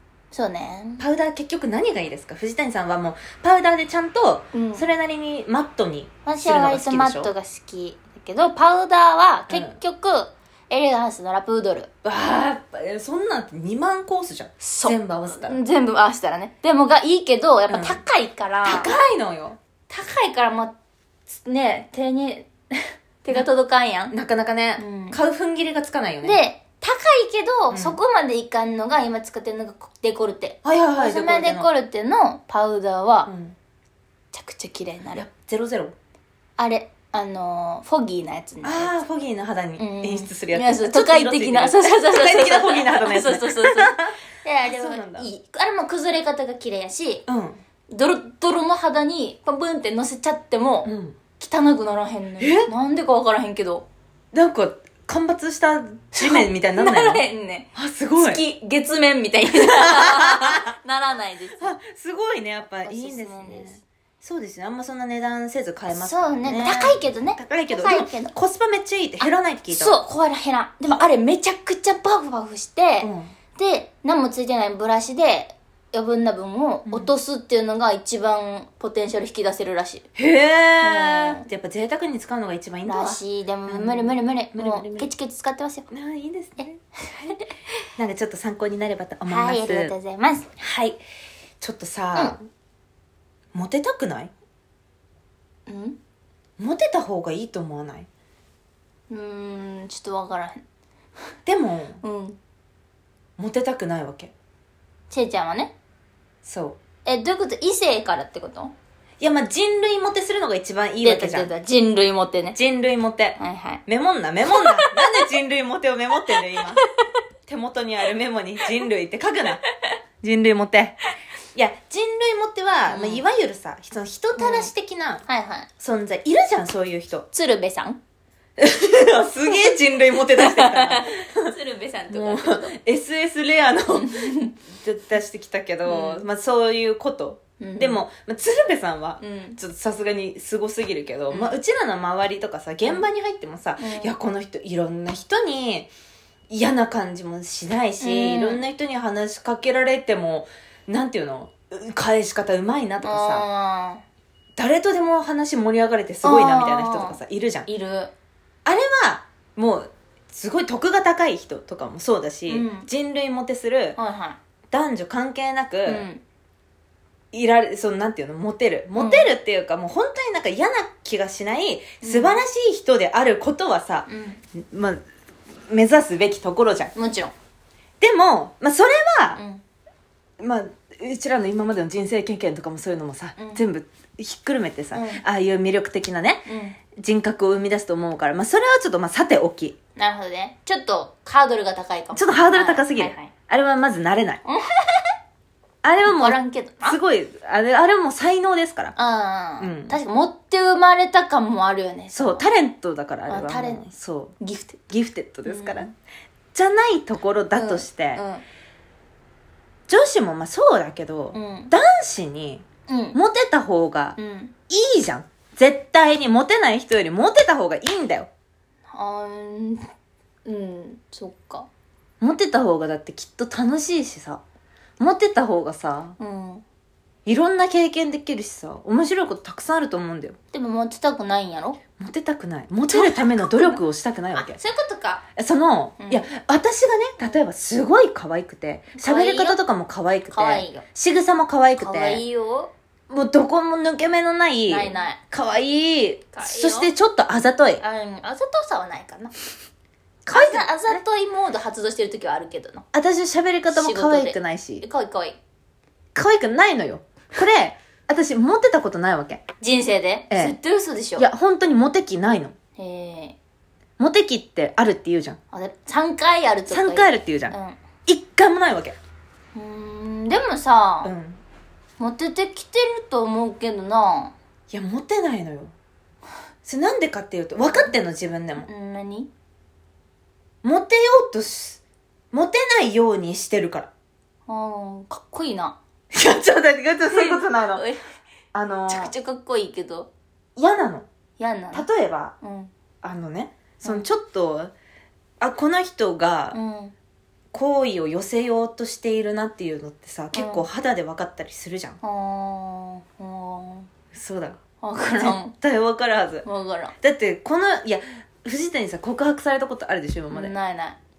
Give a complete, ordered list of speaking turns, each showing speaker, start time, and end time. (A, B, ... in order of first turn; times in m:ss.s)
0:00.3-0:01.0 A
0:01.0-0:07.3 B
0:04.5-0:04.9 A
0:06.3-0:11.9 A
0:09.5-0:09.8 B
0:12.0-0:15.6 B
0:14.6-0:19.0 A
0:17.7-0:18.0 B
0:18.6-0:19.6 B
0:19.9-0:20.7 A
0:21.3-0:24.1 A
0:24.1-0:26.4 B
0:24.8-0:25.2 A
0:26.2-0:33.3 A
0:27.7-0:28.0 B
0:30.6-0:31.7 B
0:33.3-0:33.6 B
0:34.3-0:35.2 A
0:35.2-0:35.9 B
0:36.6-0:38.9 A
0:38.6-0:44.1 B
0:39.8-0:47.2 A
0:44.6-0:45.3 B
0:47.3-0:47.6 B
0:47.9-0:53.9 A
0:50.8-0:51.2 B
0:52.4-0:52.7 B
0:54.3-0:57.2 B
0:56.1-1:01.7 A
0:57.8-0:58.4 B
0:59.7-1:00.7 B
1:01.6-1:10.0 B
1:02.8-1:03.8 A
1:05.9-1:08.3 A
1:09.2-1:20.1 A
1:13.0-1:13.3 B
1:16.9-1:17.1 B
1:20.2-1:25.1 B
1:20.8-1:21.4 A
1:22.9-1:25.9 A
1:25.9-1:27.3 B
1:26.6-1:27.5 A
1:28.0-1:29.9 B
1:29.3-1:30.5 A
1:30.6-1:31.0 B
1:31.6-1:32.5 B
1:33.5-1:34.3 B
1:35.7-1:36.0 A
1:36.6-1:38.1 B
1:39.1-1:40.6 A
1:41.5-1:42.0 B
1:42.0-1:42.4 A
1:43.4-1:44.3 B
1:45.1-1:45.7 A
1:46.4-1:46.8 B
1:47.0-1:48.7 A
1:49.2-1:51.5 B
1:51.0-1:52.6 A
1:52.6-1:56.8 B
1:53.4-1:53.8 A
1:54.5-1:55.3 A
1:57.5-1:59.6 B
2:00.2-2:01.0 B
2:01.5-2:05.2 B
2:02.9-2:03.2 A
2:04.4-2:04.7 A
2:05.3-2:05.7 A
2:05.8-2:07.3 B
2:07.3-2:08.0 A
2:08.6-2:11.5 B
2:10.2-2:12.7 A
2:12.1-2:25.9 B
2:14.0-2:14.5 A
2:15.9-2:16.3 A
2:17.6-2:18.0 A
2:19.2-2:19.6 A
2:21.3-2:21.6 A
2:23.8-2:24.2 A
2:26.5-2:33.4 B
2:28.0-2:28.6 A
2:33.0-2:34.0 A
2:34.6-2:37.7 B
2:36.2-2:38.1 A
2:38.6-2:44.0 B
2:42.5-2:42.9 A
2:44.0-2:44.4 A
2:44.7-2:46.1 B
2:45.9-2:46.2 A
2:47.3-2:55.0 B
2:49.0-2:49.3 A
2:52.0-2:52.4 A
2:54.1-2:54.4 A
2:55.7-2:56.9 B
2:57.0-2:57.3 A
2:58.0-2:59.4 B
2:59.4-2:59.6 A
3:00.4-3:09.8 B
3:03.4-3:03.7 A
3:04.9-3:05.2 A
3:06.5-3:06.8 A
3:10.0-3:13.3 A
3:12.1-3:14.4 B
3:14.4-3:15.1 A
3:15.8-3:19.0 B
3:16.0-3:17.0 A
3:19.0-3:22.5 A
3:19.6-3:20.0 B
3:22.1-3:24.4 B
3:23.3-3:23.8 A
3:24.4-3:24.8 A
3:24.9-3:25.9 B
3:25.5-3:25.9 A
3:26.5-3:28.2 B
3:27.6-3:28.4 A
3:29.9-3:34.2 B
3:31.3-3:31.7 A
3:32.9-3:33.2 A
3:34.2-3:34.5 A
3:34.7-3:38.3 B
3:38.9-3:39.9 A
3:40.5-3:41.7 A
3:42.2-3:44.4 B
3:45.0-3:46.2 B
3:46.2-3:46.6 A
3:47.3-3:50.4 B
3:50.5-3:51.8 A
3:52.0-3:54.6 B
3:52.9-3:53.8 A
3:54.3-3:55.2 A
3:55.4-4:02.2 B
3:56.0-3:56.3 A
3:59.0-3:59.6 A
4:00.3-4:00.8 A
4:01.8-4:02.7 A
4:03.1-4:07.8 B
4:04.7-4:05.2 A
4:06.3-4:06.9 A
4:07.8-4:09.3 A
4:10.3-4:11.0 B
4:10.3-4:12.8 A
4:12.9-4:14.9 B
4:13.7-4:15.4 A
4:16.2-4:19.4 B
4:19.6-4:21.3 A
4:20.3-4:20.6 B
4:21.2-4:22.6 B
4:22.8-4:23.4 A
4:24.0-4:25.4 B
4:25.5-4:27.8 A
4:26.7-4:29.0 B
4:29.6-4:31.1 A
4:31.0-4:31.4 B
4:32.0-4:34.4 A
4:34.7-4:35.7 B
4:36.6-4:38.7 B
4:37.6-4:37.9 A
4:38.6-4:39.3 A
4:40.6-4:41.8 B
4:42.3-4:43.9 B
4:44.5-4:45.8 A
4:46.1-4:47.8 B
4:47.1-4:48.0 A
4:48.5-4:49.1 B
4:48.9-4:50.1 A
4:50.6-4:51.1 B
4:51.4-4:51.9 A
4:51.7-4:52.3 B
4:52.4-4:52.7 A
4:53.0-4:54.7 B
4:55.4-4:56.6 B
4:56.5-4:56.9 A
4:57.5-5:02.0 B
5:00.3-5:00.7 A
5:02.0-5:03.9 A
5:04.1-5:04.6 B
5:04.8-5:05.5 A
5:05.1-5:06.5 B
5:06.4-5:07.0 A
5:07.0-5:10.5 B
5:10.3-5:11.0 A